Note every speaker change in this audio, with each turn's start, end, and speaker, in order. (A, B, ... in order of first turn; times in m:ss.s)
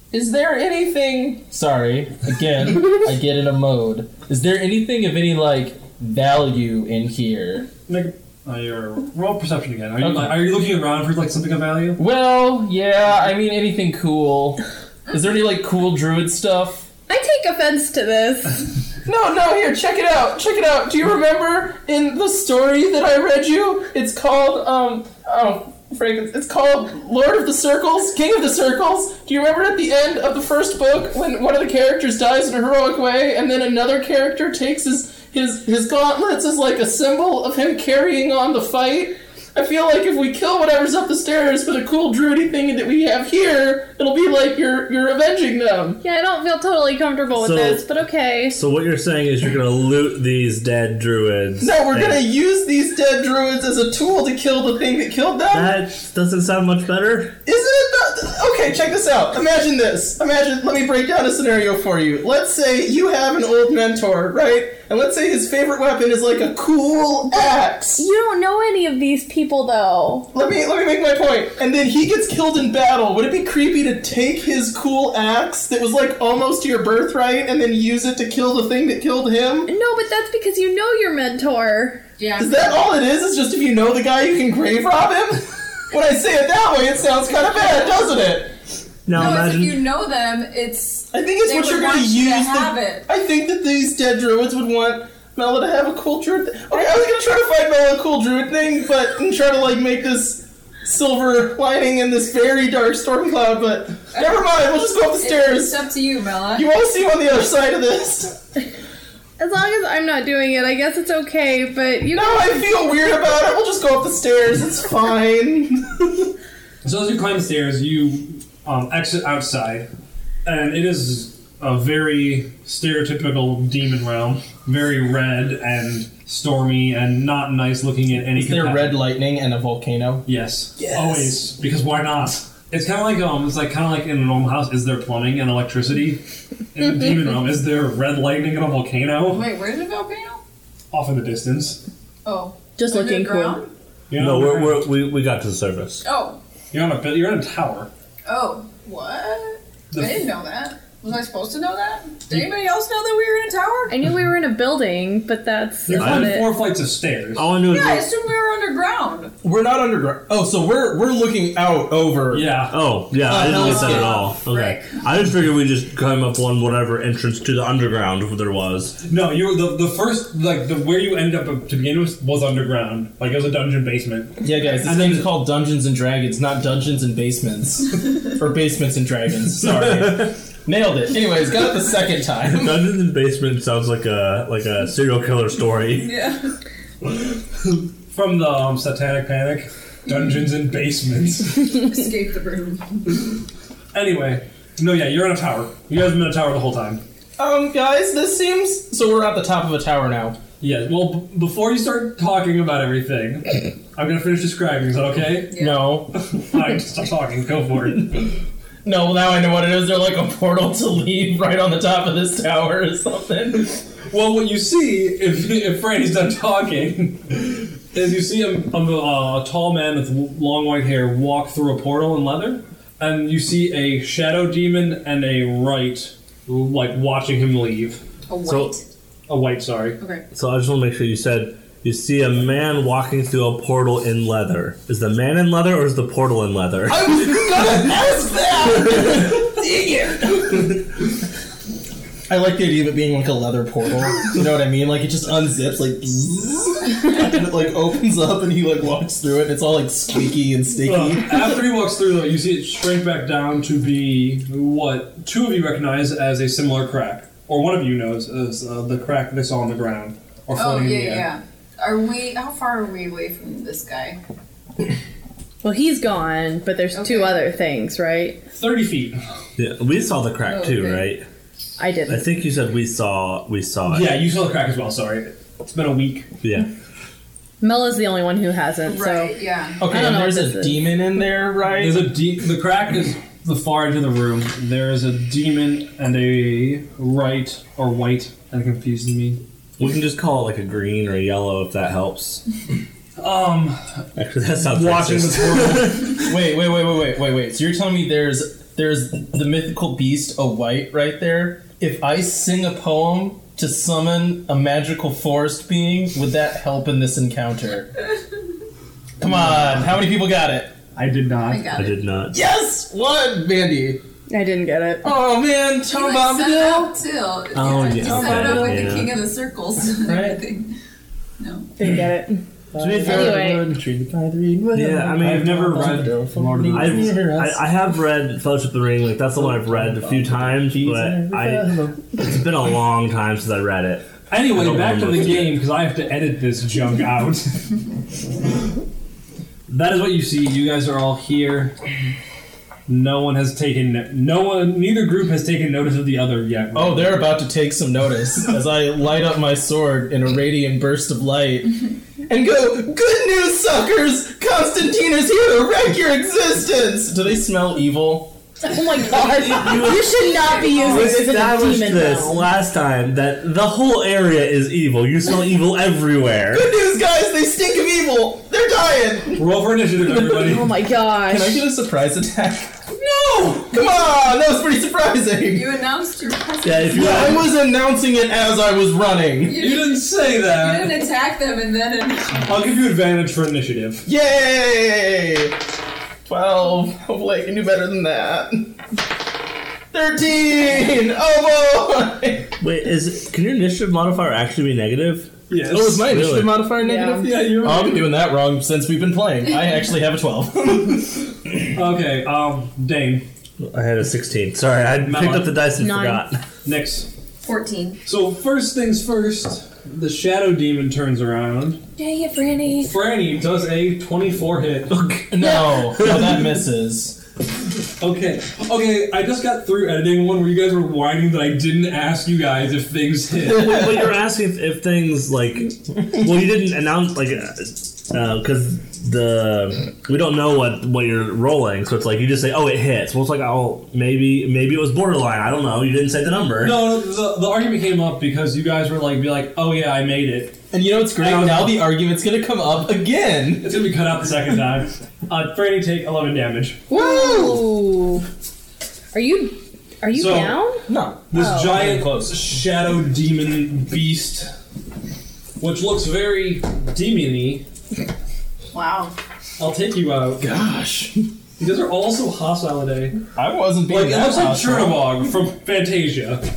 0:00.1-0:07.7 A
0:07.9-0:12.0 B
0:10.0-0:10.4 A
0:12.0-0:16.9 A
0:17.1-0:18.7 C
0:19.1-0:46.0 A
0:46.0-0:48.6 C
0:47.4-0:47.8 D
0:48.5-0:52.2 D
0:51.6-0:55.8 A
0:55.5-0:57.4 D
0:57.5-1:08.0 A
1:08.0-1:10.3 C
1:10.3-1:19.7 A
1:19.7-1:22.0 C
1:22.2-1:22.7 E
1:22.4-1:28.6 A
1:29.1-1:29.8 D
1:29.1-1:33.1 E
1:31.1-1:45.8 A
1:45.2-1:46.7 E
1:46.6-1:48.4 A
1:49.4-1:52.6 C
1:52.1-1:56.3 A
1:56.8-1:59.9 B
2:00.4-2:09.0 B
2:08.4-2:10.3 A
2:10.3-2:16.2 B
2:10.8-2:11.4 A
2:16.7-2:19.5 B
2:19.3-2:20.4 E
2:20.9-2:21.8 B
2:22.2-2:23.7 E
2:22.8-2:23.6 C
2:24.1-2:24.8 B
2:24.1-2:26.0 D
2:26.0-2:26.4 E
2:26.7-2:27.9 B
2:28.3-2:33.9 E
2:29.9-2:30.3 B
2:33.9-2:36.5 C
2:35.9-2:37.5 B
2:36.0-2:36.4 D
2:37.4-2:38.1 D
2:37.6-2:39.3 E
2:39.4-2:42.5 A
2:42.3-2:42.8 B
2:42.7-2:49.0 D
2:43.2-2:44.2 A
2:43.5-2:45.0 E
2:49.0-2:55.3 B
2:54.4-3:02.8 A
2:59.8-3:00.3 D
3:02.4-3:06.2 D
3:06.0-3:06.5 E
3:08.1-3:11.6 B
3:11.6-3:13.2 E
3:13.9-3:17.0 B
3:17.4-3:20.4 A
3:20.6-3:25.6 B
3:25.5-3:25.8 E
3:25.6-3:26.2 A
3:26.2-3:28.1 B
3:28.0-3:28.3 A
3:28.8-3:33.8 A
3:34.1-3:48.0 B
3:48.3-3:48.8 E
3:48.4-3:48.8 D
3:49.3-3:50.0 B
3:50.3-3:57.1 D
3:56.9-4:00.7 A
4:02.3-4:11.6 A
4:10.8-4:21.3 B
4:20.6-4:24.2 E
4:25.6-4:28.4 C
4:26.9-4:27.4 E
4:28.5-4:29.2 B
4:29.6-4:31.2 D
4:30.4-4:31.1 E
4:31.8-4:32.3 C
4:32.1-4:34.1 D
4:33.9-4:36.3 B
4:36.4-4:36.7 D
4:37.6-4:40.8 C
4:38.8-4:39.8 E
4:39.8-4:42.1 A
4:41.7-4:49.4 B
4:49.8-4:52.4 D
4:53.2-4:54.0 B
4:54.2-4:56.3 D
4:54.6-4:56.2 B
4:56.2-5:07.9 A
5:09.2-5:10.7 A
5:11.0-5:11.7 B
5:11.5-5:12.0 E
5:11.7-5:12.4 D
5:12.3-5:14.0 A
5:14.3-5:15.1 C
5:15.0-5:17.0 A
5:15.9-5:20.7 E
5:17.5-5:19.2 D
5:18.0-5:18.9 A
5:20.0-5:20.4 A
5:21.4-5:21.7 E
5:21.8-5:22.4 C
5:22.7-5:27.6 A
5:22.8-5:23.5 D
5:23.0-5:23.6 C
5:24.7-5:26.1 D
5:25.2-5:27.2 B
5:26.7-5:35.5 D
5:29.4-5:32.2 A
5:34.3-5:37.7 B
5:39.7-5:41.8 B
5:42.9-5:47.3 B
5:46.7-5:58.4 A
5:58.6-6:02.5 C
5:59.4-6:06.7 D
6:00.2-6:01.2 E
6:06.5-6:09.5 A
6:09.4-6:10.7 B
6:10.1-6:10.6 A
6:10.2-6:11.7 C
6:11.2-6:15.7 A
6:15.5-6:17.4 E
6:16.6-6:17.4 D
6:16.9-6:19.7 A
6:19.4-6:22.6 E
6:19.6-6:21.0 B
6:22.5-6:24.1 B
6:24.1-6:25.6 A
6:26.3-6:28.8 A
6:29.9-6:32.5 A
6:32.6-6:35.4 D
6:35.5-6:36.2 B
6:35.6-6:41.4 A
6:36.0-6:36.6 D
6:36.8-6:37.3 C
6:37.0-6:38.1 B
6:41.7-6:43.3 B
6:43.6-6:46.4 D
6:45.0-6:45.6 B
6:45.8-6:46.3 C
6:46.6-6:47.1 B
6:47.4-6:48.0 E
6:48.0-6:51.8 B
6:52.0-6:52.9 C
6:52.8-6:55.1 B
6:54.9-6:56.4 D
6:55.3-6:57.2 A
6:58.0-7:03.8 B
7:03.4-7:16.9 D
7:16.6-7:20.6 B
7:20.7-7:23.8 A
7:21.2-7:21.9 B
7:23.6-7:26.8 B
7:26.9-7:28.2 C
7:26.9-7:27.6 A
7:29.1-7:31.8 C
7:30.1-7:30.6 B
7:30.9-7:32.4 A
7:31.3-7:34.5 B
7:35.6-7:37.6 B
7:38.7-7:39.1 E
7:39.6-7:40.5 B
7:40.4-7:41.3 A
7:41.6-7:43.2 B
7:43.4-7:45.1 A
7:43.9-7:46.4 B